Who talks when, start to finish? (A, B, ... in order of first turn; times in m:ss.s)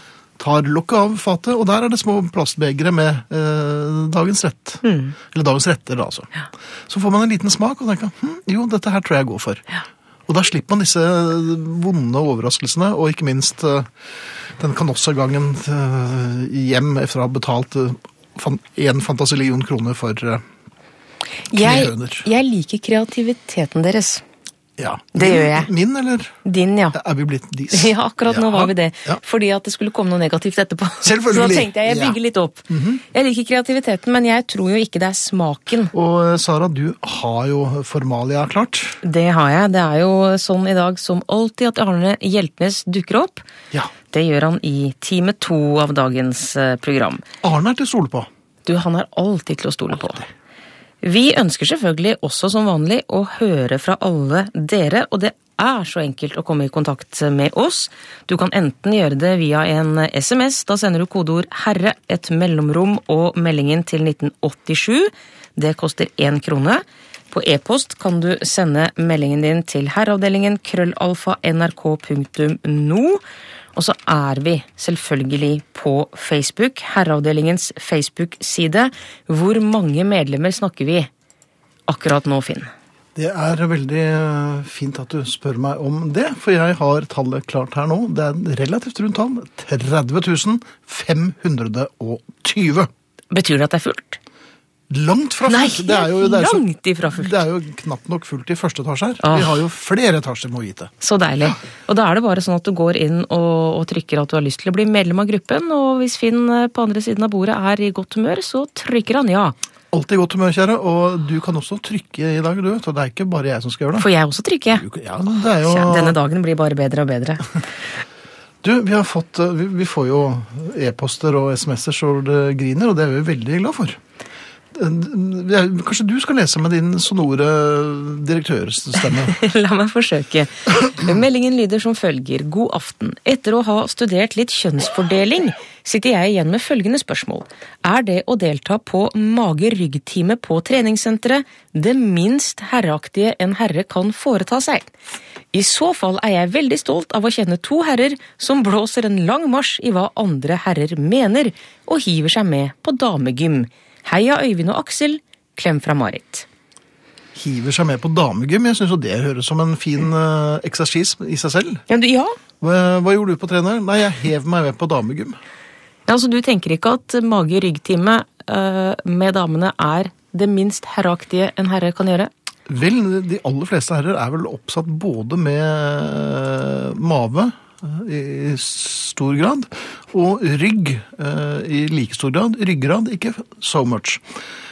0:00.4-0:06.3 A
0:04.8-0:05.2 B
0:06.9-0:09.7 A
0:10.3-0:13.9 A
0:14.6-0:20.4 A
0:21.5-0:24.2 B
0:21.5-0:22.2 A
0:24.8-0:26.4 A
0:25.1-0:25.7 B
0:26.4-0:27.0 B
0:26.9-0:29.2 A
0:27.7-0:35.9 B
0:31.0-0:32.2 A
0:32.7-0:33.0 A
0:35.9-0:39.0 A
0:39.0-0:43.5 B
0:44.1-0:47.2 B
0:47.4-0:48.3 A
0:48.6-0:50.2 B
0:51.0-1:13.2 B
1:13.7-1:21.1 B
1:21.9-1:22.7 B
1:23.1-1:32.9 A
1:33.3-1:34.2 B
1:34.9-1:40.9 A
1:35.4-1:37.4 B
1:39.2-1:39.6 B
1:41.0-1:49.5 B
1:49.9-1:54.1 A
1:54.0-1:54.8 B
1:54.7-1:56.2 A
1:55.6-1:57.6 B
1:58.6-2:04.0 A
2:04.7-2:09.4 A
2:09.2-2:24.9 B
2:25.5-2:36.4 B
2:37.3-2:41.8 A
2:41.9-2:42.4 B
2:42.6-2:45.4 A
2:46.1-2:52.3 B
2:52.7-3:04.2 A